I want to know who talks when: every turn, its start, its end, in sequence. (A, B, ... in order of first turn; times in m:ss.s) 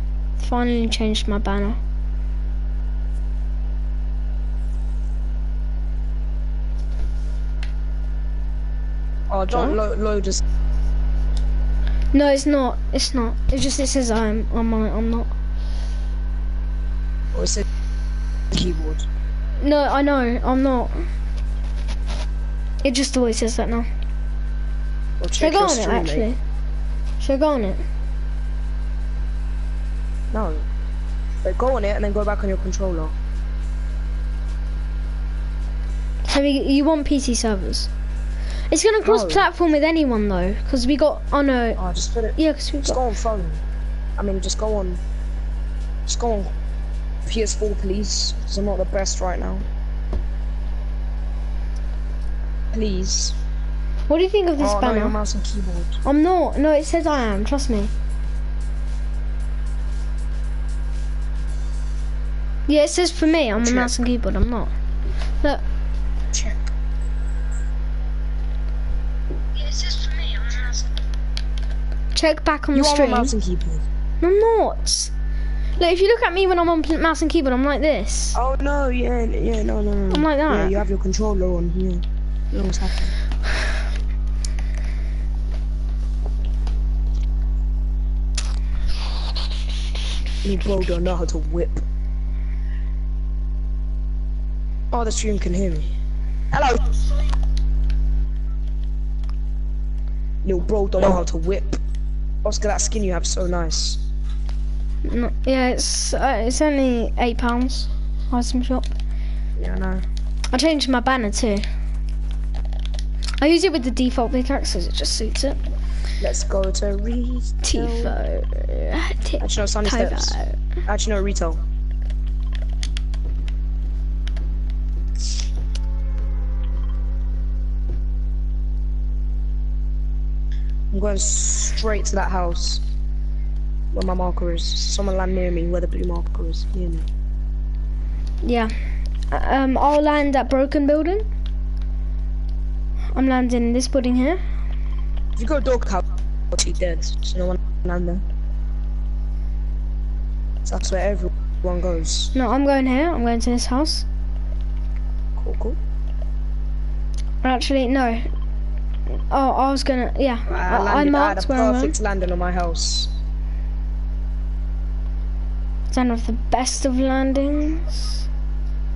0:00.4-0:01.8 A
0:09.3-0:10.4 B
0:09.5-0:09.8 A
0:12.1-0:15.3 A
0:17.3-0:17.7 B
0:18.5-0:19.1 B
0:19.6-0:21.1 A
0:22.8-0:23.9 A
0:25.2-0:26.3 B
0:25.4-0:26.4 A
0:27.2-0:27.8 A
0:30.3-0:30.7 B
0:31.4-0:33.2 B
0:36.2-0:37.9 A
0:38.7-0:41.8 A
0:39.0-0:39.5 B
0:41.8-0:43.6 B
0:42.4-0:43.0 A
0:44.2-0:45.0 B
0:46.1-0:46.5 B
0:47.3-0:49.7 B
0:52.7-0:53.4 B
0:54.1-0:55.2 A
0:54.6-0:56.0 B
0:56.0-0:57.9 A
1:02.7-1:04.7 A
1:03.6-1:03.9 B
1:06.3-1:06.6 B
1:09.7-1:10.6 A
1:12.1-1:13.3 A
1:12.7-1:13.8 B
1:14.2-1:15.1 A
1:15.8-1:18.4 A
1:18.4-1:23.2 B
1:20.1-1:20.8 A
1:30.4-1:31.8 B
1:34.9-1:35.9 B
1:36.5-1:36.9 B
1:40.4-1:41.8 B
1:42.4-1:44.0 B
1:45.0-1:48.9 A
1:49.6-1:50.0 B
1:50.5-1:51.7 A
1:53.4-1:55.6 A
1:56.2-1:58.2 B
1:57.6-2:00.6 A
1:59.4-2:01.6 B
2:10.9-2:12.8 B
2:13.9-2:17.1 B
2:18.4-2:18.7 A
2:19.3-2:21.3 A
2:23.2-2:24.4 A
2:25.4-2:28.2 B
2:30.6-2:32.3 B
2:32.3-2:34.1 A
2:35.4-2:35.8 B
2:37.4-2:38.3 A
2:39.1-2:42.0 A
2:40.5-2:43.1 B
2:45.9-2:48.2 A